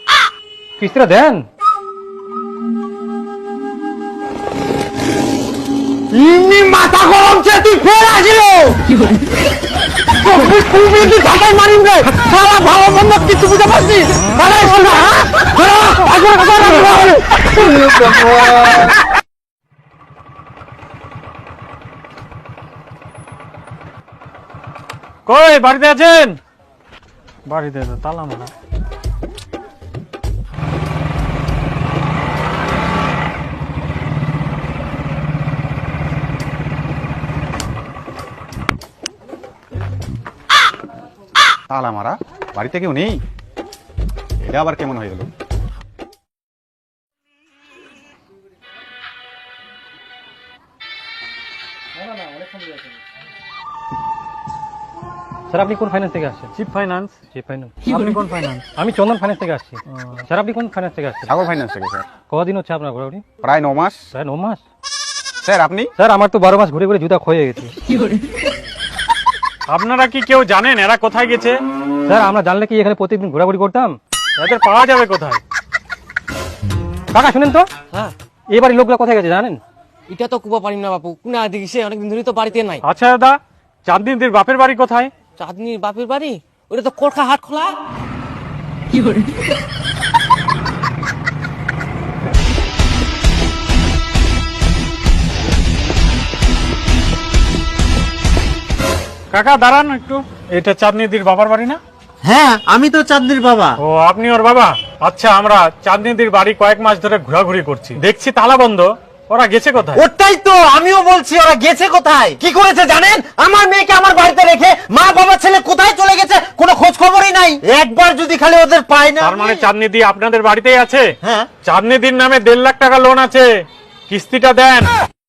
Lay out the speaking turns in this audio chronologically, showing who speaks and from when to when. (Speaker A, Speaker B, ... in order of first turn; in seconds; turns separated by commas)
Speaker A: 0.8-1.5, Speaker B: 6.1-8.8, Speaker B: 10.2-18.6, Speaker C: 25.3-26.4, Speaker C: 27.5-28.5, Speaker D: 41.7-43.2, Speaker D: 44.5-45.3, Speaker A: 55.5-56.5, Speaker C: 56.6-57.2, Speaker A: 57.3-57.8, Speaker C: 57.8-58.6, Speaker A: 58.8-61.3, Speaker D: 61.3-62.0, Speaker A: 62.3-63.2, Speaker D: 63.4-64.0, Speaker A: 64.1-64.6, Speaker D: 65.4-65.9, Speaker A: 66.0-67.7, Speaker C: 69.7-71.5, Speaker A: 72.1-74.0, Speaker C: 74.4-75.4, Speaker A: 77.1-77.7, Speaker A: 78.5-79.6, Speaker E: 80.1-82.8, Speaker C: 82.8-85.1, Speaker E: 85.4-87.8, Speaker C: 99.3-101.8, Speaker B: 102.2-103.8, Speaker C: 103.8-110.0, Speaker B: 110.0-119.7, Speaker C: 119.2-121.1, Speaker B: 121.2-121.5, Speaker C: 121.6-123.5, Speaker C: 124.1-124.9